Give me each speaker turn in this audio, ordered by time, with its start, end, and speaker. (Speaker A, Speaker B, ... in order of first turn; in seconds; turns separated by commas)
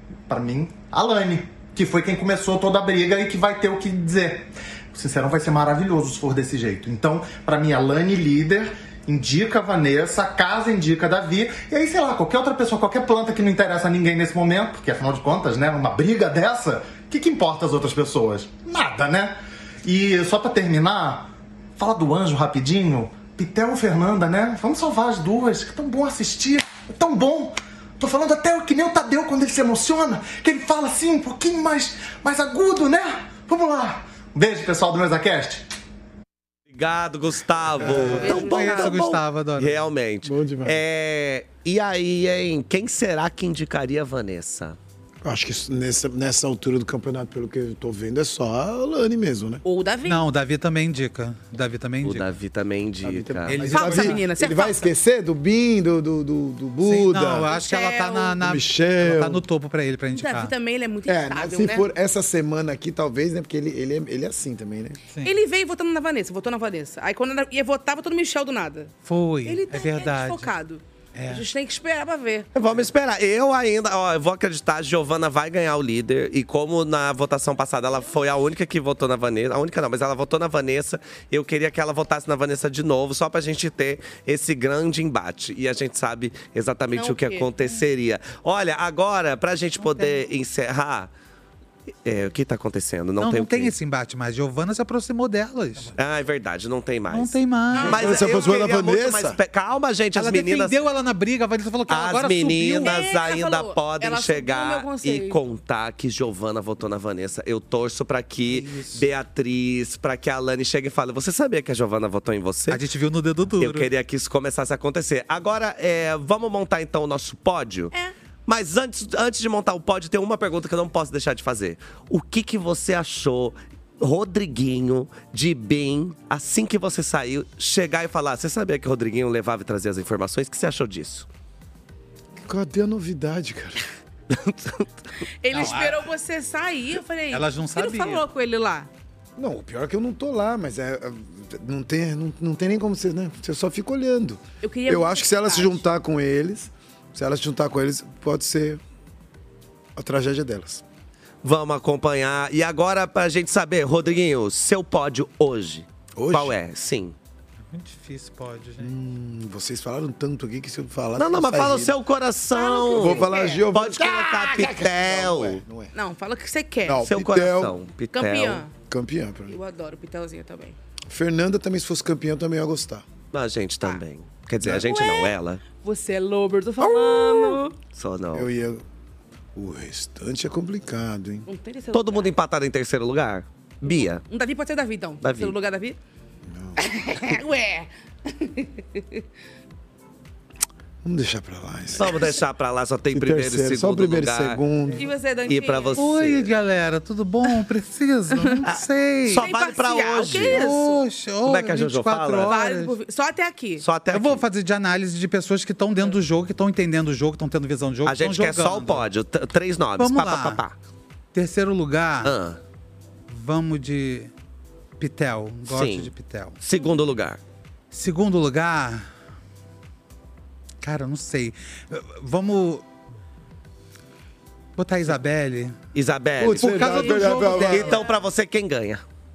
Speaker A: 0.3-35.6, Speaker B: 36.7-44.8, Speaker C: 37.8-39.9, Speaker D: 38.2-39.0, Speaker E: 40.2-40.8, Speaker E: 45.2-49.6, Speaker D: 49.6-50.2, Speaker C: 50.1-52.3, Speaker B: 52.0-53.7, Speaker E: 53.0-57.5, Speaker C: 53.5-54.2, Speaker D: 53.7-54.9, Speaker C: 56.9-60.5, Speaker D: 57.5-58.4, Speaker E: 58.4-59.4, Speaker D: 60.1-61.9, Speaker E: 61.1-65.0, Speaker D: 65.2-72.5, Speaker C: 69.0-70.5, Speaker C: 71.2-71.5, Speaker B: 72.5-91.1, Speaker D: 86.9-87.5, Speaker C: 89.9-90.2, Speaker B: 92.0-93.7, Speaker C: 93.2-96.0, Speaker B: 96.0-100.8, Speaker C: 97.1-98.5, Speaker D: 97.7-98.2, Speaker E: 97.8-99.4, Speaker C: 100.2-103.1, Speaker B: 101.9-112.8, Speaker D: 102.8-105.4, Speaker C: 108.5-109.1, Speaker C: 112.7-113.9, Speaker B: 113.6-117.9, Speaker B: 118.5-131.3, Speaker E: 132.4-133.9, Speaker B: 134.3-134.9, Speaker D: 135.4-138.9, Speaker C: 135.5-136.1, Speaker C: 137.3-138.3, Speaker E: 139.4-148.8, Speaker D: 144.6-145.8, Speaker E: 150.0-150.8, Speaker B: 151.4-157.2, Speaker E: 156.2-156.6, Speaker C: 157.7-158.9, Speaker E: 158.8-161.9, Speaker B: 161.2-165.6, Speaker D: 162.5-163.7, Speaker E: 162.9-165.9, Speaker D: 165.9-167.1, Speaker E: 166.9-167.7, Speaker B: 167.1-168.6, Speaker D: 168.1-168.7, Speaker E: 168.9-169.6, Speaker D: 169.5-170.8, Speaker E: 171.1-173.1, Speaker B: 173.3-175.6, Speaker D: 174.7-177.8, Speaker E: 177.0-177.6, Speaker B: 177.8-178.5, Speaker E: 178.3-178.8, Speaker E: 179.6-181.5, Speaker D: 181.5-182.3, Speaker B: 181.9-184.2, Speaker D: 183.8-186.0, Speaker B: 185.2-185.6, Speaker E: 186.5-187.3, Speaker D: 186.8-189.2, Speaker E: 191.0-192.4, Speaker B: 191.9-194.6, Speaker E: 193.1-195.1, Speaker D: 194.9-196.1, Speaker B: 195.5-196.5, Speaker C: 196.0-199.5, Speaker B: 198.7-200.7, Speaker D: 199.4-201.0, Speaker C: 200.5-202.9, Speaker B: 201.4-202.5, Speaker D: 202.5-203.8, Speaker B: 203.8-204.4, Speaker C: 204.1-209.1, Speaker B: 208.1-210.8, Speaker C: 210.0-210.6, Speaker C: 211.3-212.4, Speaker B: 212.2-212.6, Speaker C: 213.3-214.3, Speaker C: 215.0-216.6, Speaker B: 215.7-217.4, Speaker C: 217.9-219.1, Speaker C: 220.8-222.8, Speaker C: 224.8-225.8, Speaker B: 225.9-229.0, Speaker E: 226.4-228.0, Speaker C: 226.6-228.0, Speaker D: 226.9-228.2